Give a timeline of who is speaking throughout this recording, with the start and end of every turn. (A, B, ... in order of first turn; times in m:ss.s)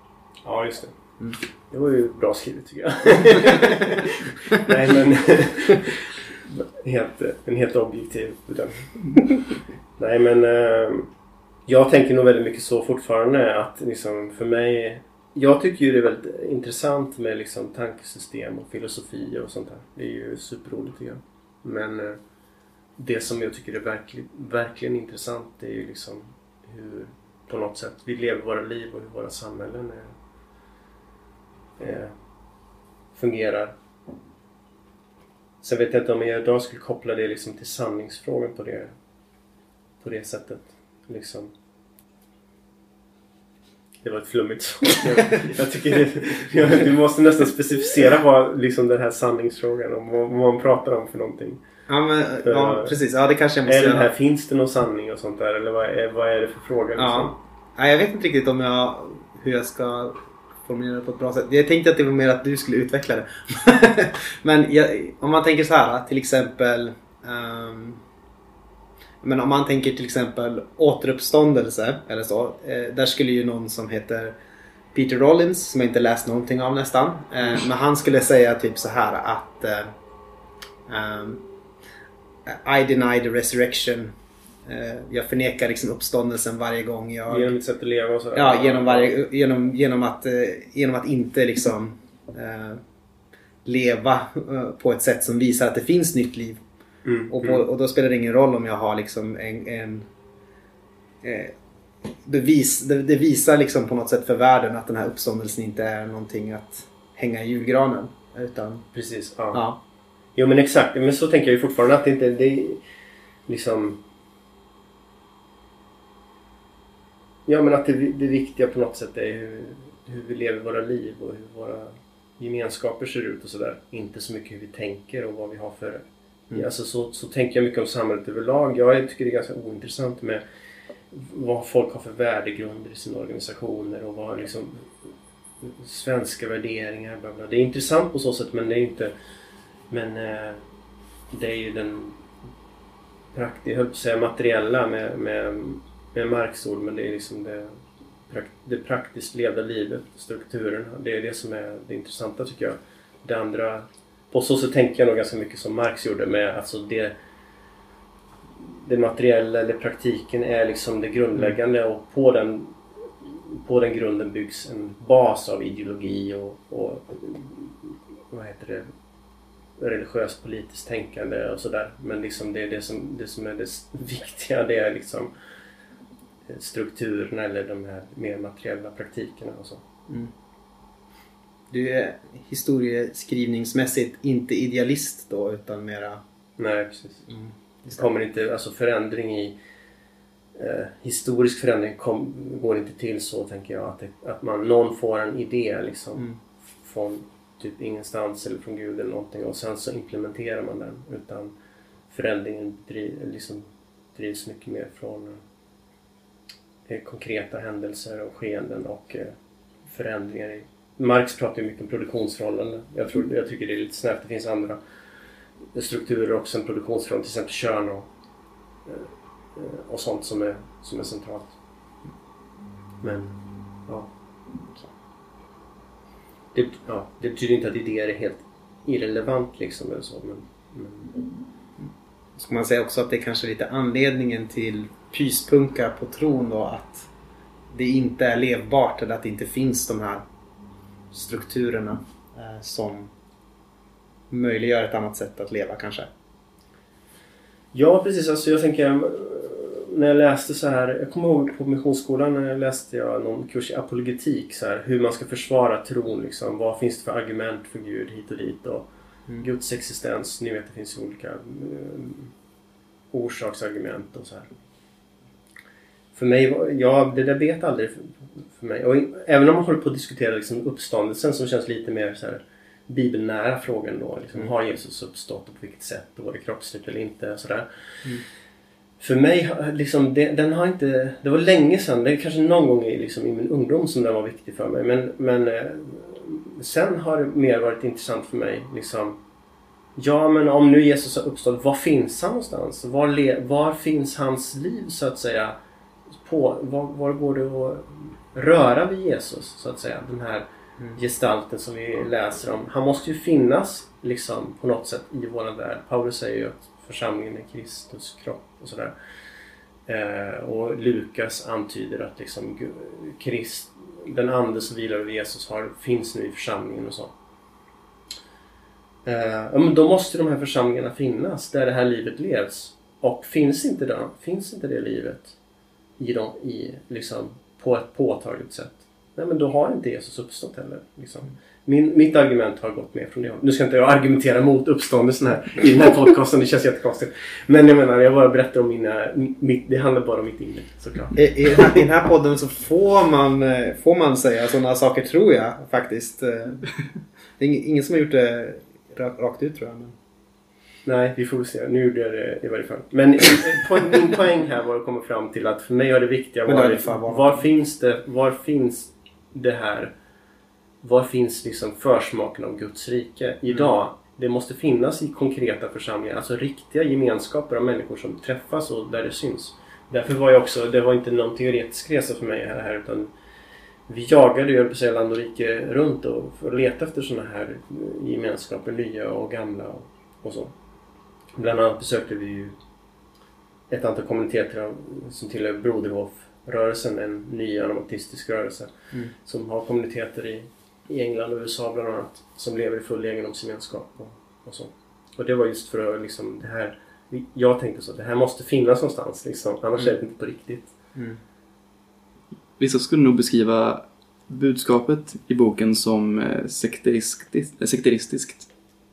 0:00.4-0:00.9 A
0:01.7-0:09.2 A
0:10.0-0:11.1 A
0:11.7-0:22.2 A
0:23.0-0:30.1 A
0:31.8-0:32.1 A
0:33.1-0:33.7 A
0:35.6-0:38.9 A
0:40.0-0:41.5 A
0:44.0-0:51.6 A
0:51.9-0:54.1 B
0:52.4-0:52.9 A
0:53.6-0:57.4 A
0:57.0-1:08.0 B
1:09.2-1:14.4 B
1:14.9-1:19.9 B
1:20.9-1:21.4 B
1:22.4-1:24.1 B
1:24.6-1:27.5 B
1:27.3-1:29.2 A
1:28.3-1:32.8 B
1:33.6-1:36.6 B
1:37.0-1:37.6 A
1:37.3-1:40.1 B
1:41.2-1:41.5 B
1:42.2-1:48.9 B
1:48.9-1:49.7 A
1:49.5-1:49.8 B
1:50.3-1:52.8 A
1:53.5-1:54.0 A
1:57.4-2:10.4 A
2:11.1-2:14.9 A
2:15.6-2:19.1 A
2:19.9-2:20.6 A
2:21.3-2:22.2 A
2:23.3-2:37.2 A
2:38.7-2:48.9 A
2:49.8-2:55.3 A
2:56.5-2:59.8 A
3:01.7-3:06.2 B
3:06.6-3:07.2 A
3:07.3-3:08.0 B
3:07.9-3:09.6 A
3:10.6-3:21.5 A
3:22.1-3:25.4 A
3:26.9-3:29.3 A
3:29.8-3:34.8 A
3:35.7-3:38.1 A
3:38.8-3:41.5 A
3:43.0-3:44.1 A
3:46.5-3:51.3 A
3:51.8-3:57.1 B
3:57.7-4:00.2 B
4:01.1-4:03.1 B
4:04.3-4:06.1 B
4:07.7-4:22.3 A
4:23.1-4:24.5 A
4:26.1-4:38.2 A
4:39.0-4:49.2 A
4:50.0-4:55.6 A
4:56.2-5:08.9 A
5:09.9-5:17.1 A
5:19.0-5:25.3 A
5:26.0-5:41.8 A
5:41.1-5:46.7 B
5:47.4-5:49.9 B
5:50.8-5:59.9 A
5:56.4-5:57.4 B
6:00.8-6:13.1 A
6:13.9-6:20.5 A
6:21.3-6:22.6 A
6:23.7-6:28.7 A
6:29.2-6:40.7 A
6:42.6-6:48.5 C